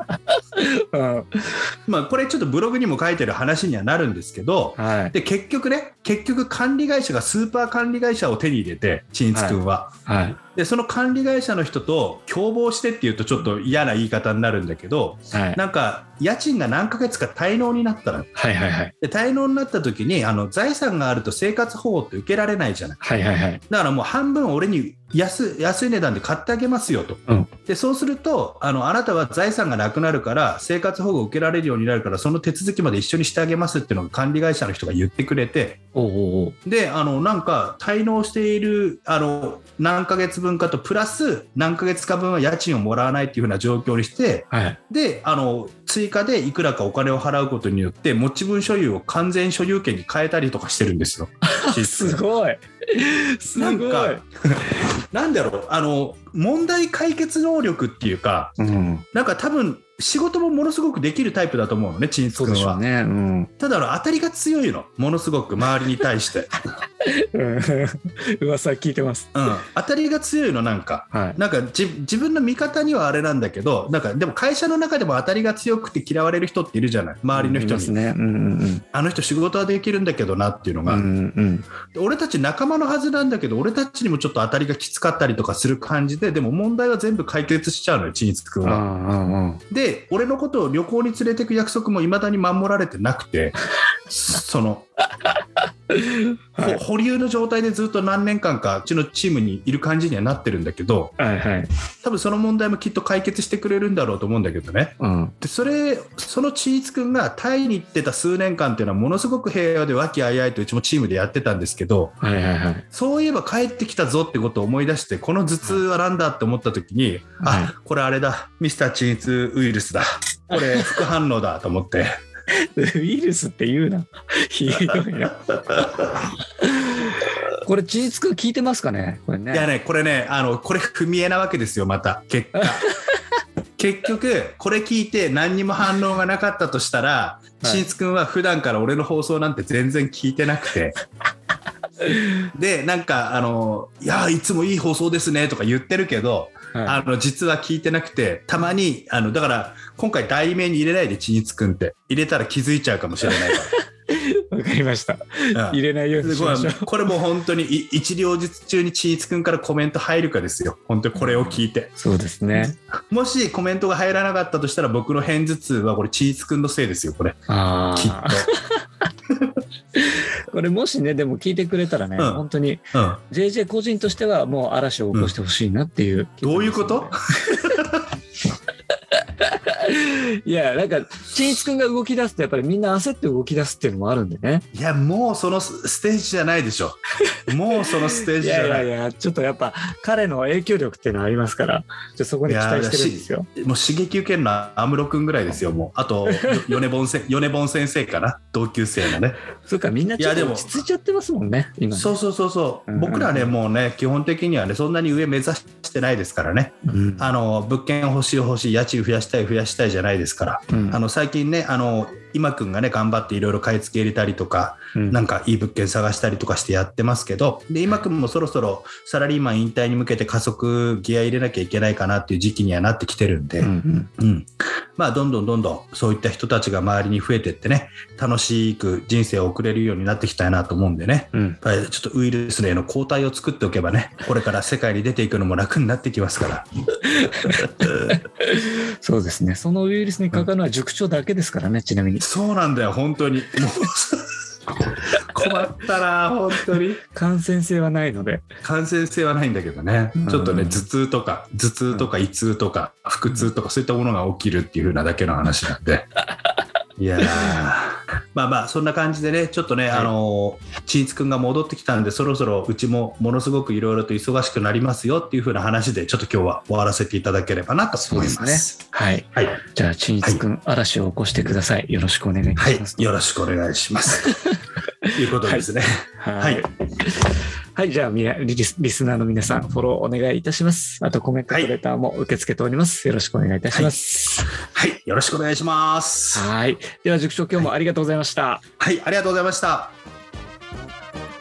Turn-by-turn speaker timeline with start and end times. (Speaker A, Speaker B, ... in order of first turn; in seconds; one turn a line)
Speaker A: 0.2-1.6
Speaker B: 1.9-9.9
Speaker A: 4.8-5.1
Speaker A: 9.3-10.4
Speaker B: 10.6-18.3
Speaker A: 15.3-15.6
Speaker A: 18.4-18.9
Speaker B: 19.0-23.0
Speaker A: 23.0-23.6
Speaker B: 23.7-35.8
Speaker A: 36.0-36.6
Speaker B: 36.6-52.2
Speaker A: 44.5-44.8
Speaker A: 51.5-54.2
Speaker B: 53.6-58.6
Speaker A: 58.6-59.0
Speaker B: 59.1-62.8
Speaker A: 62.3-63.5
Speaker B: 63.6-66.6
Speaker A: 67.0-69.3
Speaker B: 69.3-78.0
Speaker A: 71.1-71.4
Speaker A: 77.3-78.8
Speaker B: 78.9-81.0
Speaker A: 80.9-81.7
Speaker B: 81.9-88.8
Speaker A: 88.6-89.6
Speaker B: 89.7-93.5
Speaker B: 94.1-94.9
Speaker A: 95.9-96.8
Speaker B: 96.6-101.2
Speaker A: 101.2-101.7
Speaker B: 102.0-112.2
Speaker A: 105.0-105.3
Speaker A: 112.2-112.9
Speaker B: 112.9-122.1
Speaker A: 117.4-117.7
Speaker A: 120.5-120.9
Speaker A: 122.5-129.7
Speaker B: 129.5-132.9
Speaker A: 132.6-133.1
Speaker B: 133.8-141.0
Speaker B: 142.4-153.7
Speaker A: 146.7-147.0
Speaker A: 153.2-156.9
Speaker B: 155.5-161.9
Speaker A: 161.2-162.7
Speaker B: 162.6-167.4
Speaker A: 167.5-168.8
Speaker B: 167.9-168.5
Speaker A: 170.0-177.8
Speaker B: 172.2-172.4
Speaker B: 172.9-173.2
Speaker B: 176.4-178.1
Speaker A: 179.1-184.7
Speaker B: 184.7-188.9
Speaker A: 187.3-193.5
Speaker B: 192.5-199.4
Speaker A: 196.3-196.7
Speaker A: 199.7-202.2
Speaker B: 200.2-200.8
Speaker B: 201.9-236.7
Speaker A: 202.9-203.5
Speaker A: 206.9-207.3
Speaker A: 210.7-211.0
Speaker A: 223.6-224.1
Speaker A: 231.3-231.6
Speaker A: 237.2-242.3
Speaker B: 237.5-238.2
Speaker B: 242.2-244.3
Speaker B: 245.1-247.0
Speaker A: 247.1-248.4
Speaker B: 248.6-256.1
Speaker A: 250.2-250.8
Speaker B: 257.0-268.8
Speaker A: 268.0-273.1
Speaker B: 272.6-274.4
Speaker A: 274.2-275.7
Speaker B: 275.1-276.6
Speaker A: 276.2-284.5
Speaker B: 284.5-286.5
Speaker A: 286.3-288.6
Speaker B: 288.8-289.9